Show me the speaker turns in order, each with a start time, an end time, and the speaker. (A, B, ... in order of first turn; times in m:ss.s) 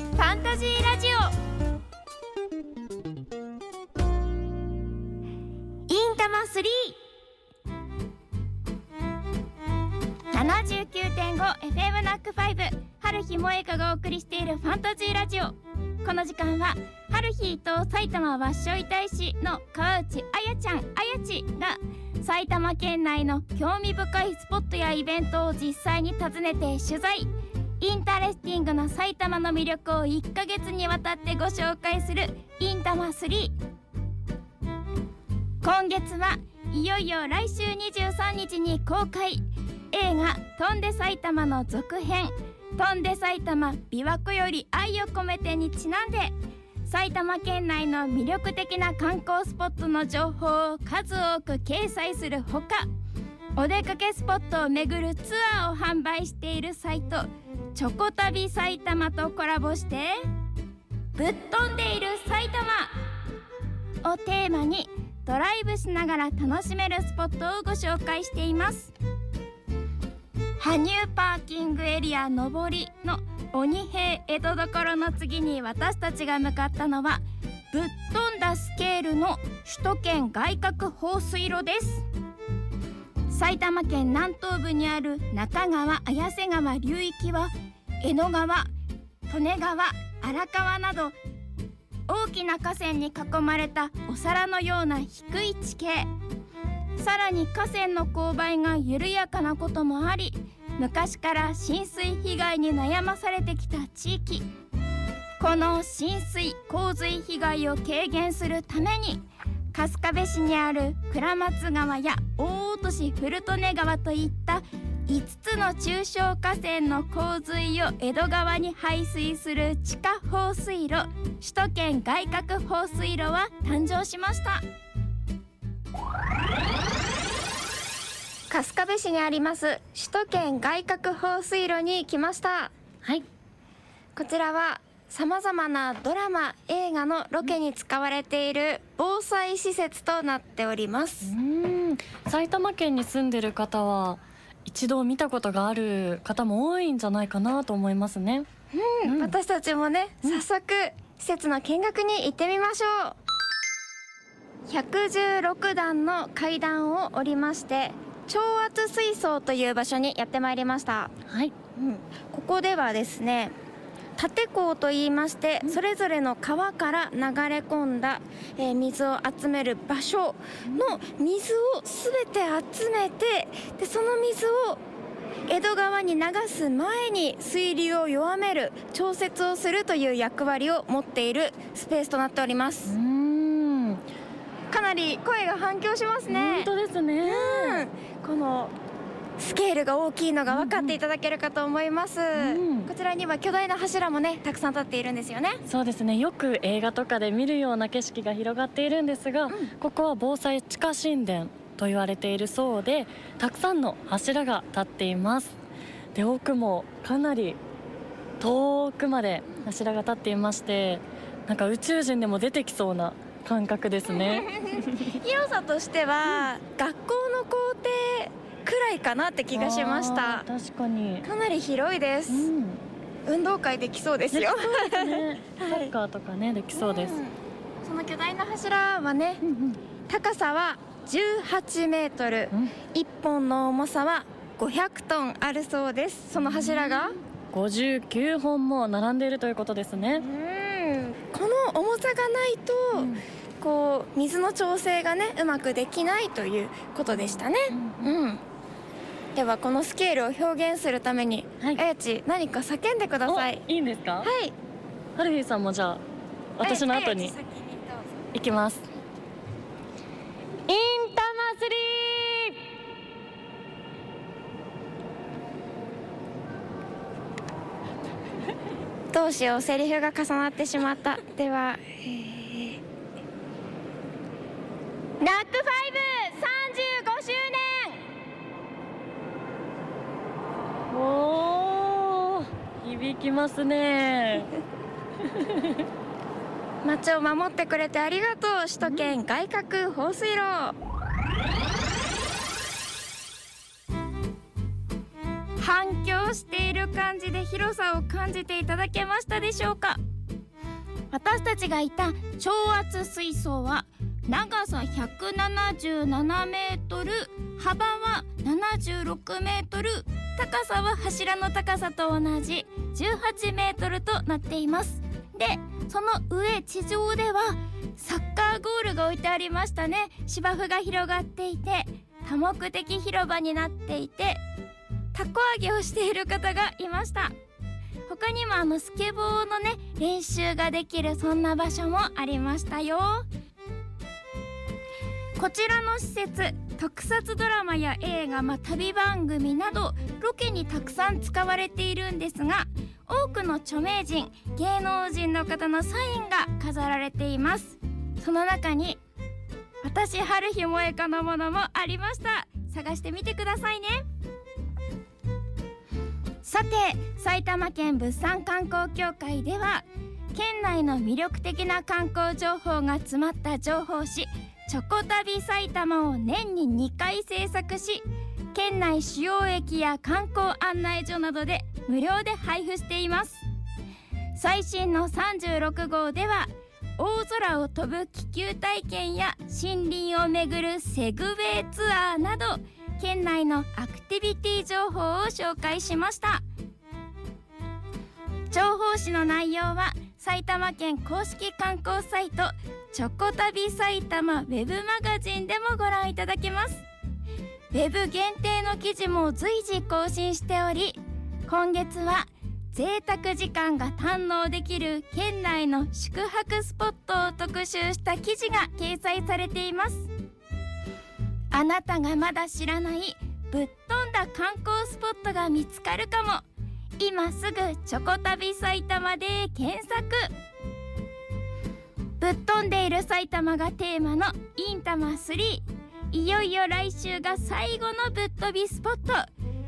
0:00.2-0:01.4 A
0:05.9-0:07.0 A
0:10.3-0:27.3 A
0:27.8-0:33.5 A
0:35.6-0:46.3 A
0:46.8-0:52.8 A
0:53.6-1:00.2 A
1:01.1-1:02.9 A
1:04.0-1:08.9 A
1:10.6-1:22.0 A
1:23.3-1:27.5 A
1:28.0-1:28.7 A
1:29.3-1:31.2 A
1:32.1-1:36.1 A
1:37.0-1:44.5 A
1:45.4-2:04.6 A
2:08.5-2:12.7 A
2:14.2-2:21.3 A
2:21.2-2:28.5 B
2:28.7-2:33.2 A
2:29.0-2:29.3 B
2:34.7-2:41.1 A
2:41.3-2:41.5 B
2:41.7-2:43.5 A
2:44.2-2:54.8 A
2:50.6-2:51.0 B
2:55.5-3:02.9 A
3:02.9-3:04.0 B
3:04.7-3:06.7 A
3:06.3-3:07.8 B
3:07.2-3:08.7 A
3:09.4-3:15.6 A
3:10.5-3:11.0 B
3:12.3-3:12.9 B
3:15.7-3:25.6 B
3:26.1-3:27.6 B
3:28.4-3:35.1 B
3:34.1-3:40.4 A
3:39.5-3:41.3 B
3:41.2-3:42.5 A
3:42.3-3:42.8 B
3:43.2-3:45.9 A
3:44.3-3:47.2 B
3:46.7-3:49.4 A
3:49.4-3:49.8 B
3:50.1-3:57.2 A
3:56.3-4:00.2 B
4:00.1-4:08.4 A
4:02.9-4:03.2 B
4:07.1-4:08.1 B
4:09.3-4:13.6 A
4:13.2-4:14.3 B
4:14.2-4:14.5 A
4:15.2-4:16.0 B
4:16.6-4:17.3 B
4:16.6-4:18.1 A
4:18.3-4:18.8 B
4:20.7-4:22.6 B
4:29.1-4:32.8 A
4:35.2-4:38.0 A
4:40.9-4:44.5 B
4:45.2-4:45.8 B
4:46.8-4:50.7 A
4:48.8-4:49.1 B
4:55.6-5:00.0 A
5:01.1-5:24.4 A
5:25.1-5:27.3 A
5:28.1-5:33.2 A
5:35.4-5:49.0 A
5:49.8-5:54.0 A
5:56.4-6:13.4 A
6:14.3-6:26.4 A
6:28.5-6:36.8 A
6:37.7-6:50.1 A
6:51.5-6:56.4 A
6:57.0-7:00.3 A
7:02.2-7:09.3 A